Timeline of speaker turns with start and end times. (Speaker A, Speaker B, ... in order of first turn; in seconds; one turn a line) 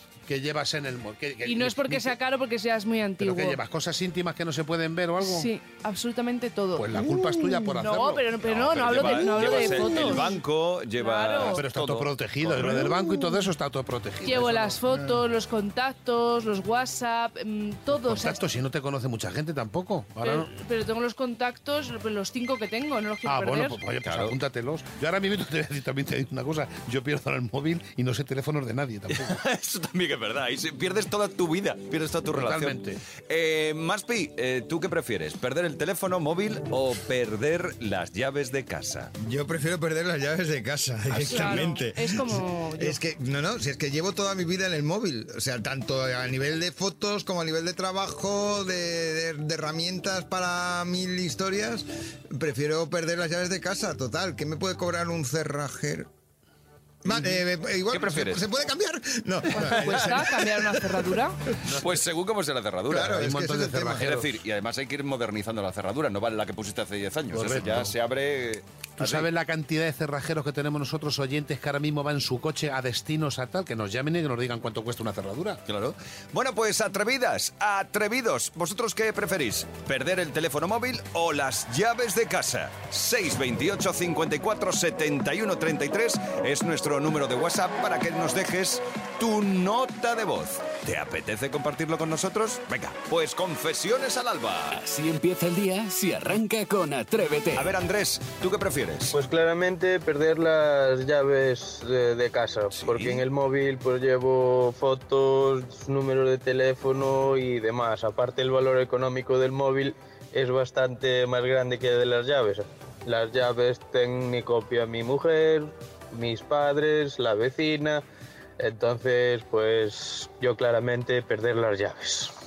Speaker A: 0.3-2.2
Speaker B: 1.4-3.6
Speaker A: 3.2-5.5
Speaker B: 5.2-10.4
Speaker A: 6.8-8.3
Speaker C: 8.4-12.8
Speaker B: 10.9-11.6
Speaker A: 11.5-14.8
Speaker B: 14.2-18.4
Speaker A: 17.9-20.5
Speaker B: 20.2-23.8
Speaker A: 23.2-29.4
Speaker C: 24.0-24.4
Speaker C: 29.1-39.1
Speaker A: 32.3-33.0
Speaker D: 39.2-56.1
Speaker C: 41.1-41.7
Speaker B: 41.2-43.0
Speaker D: 57.0-60.8
Speaker C: 57.9-58.4
Speaker B: 59.5-61.4
Speaker C: 59.8-60.1
Speaker A: 61.6-62.0
Speaker C: 61.8-63.3
Speaker D: 62.9-64.1
Speaker A: 63.0-64.3
Speaker C: 63.9-69.3
Speaker A: 67.3-67.9
Speaker A: 69.0-75.6
Speaker C: 75.7-94.8
Speaker E: 94.7-97.7
Speaker C: 97.5-99.1
Speaker F: 99.1-118.0
Speaker C: 102.7-103.2
Speaker F: 118.6-122.3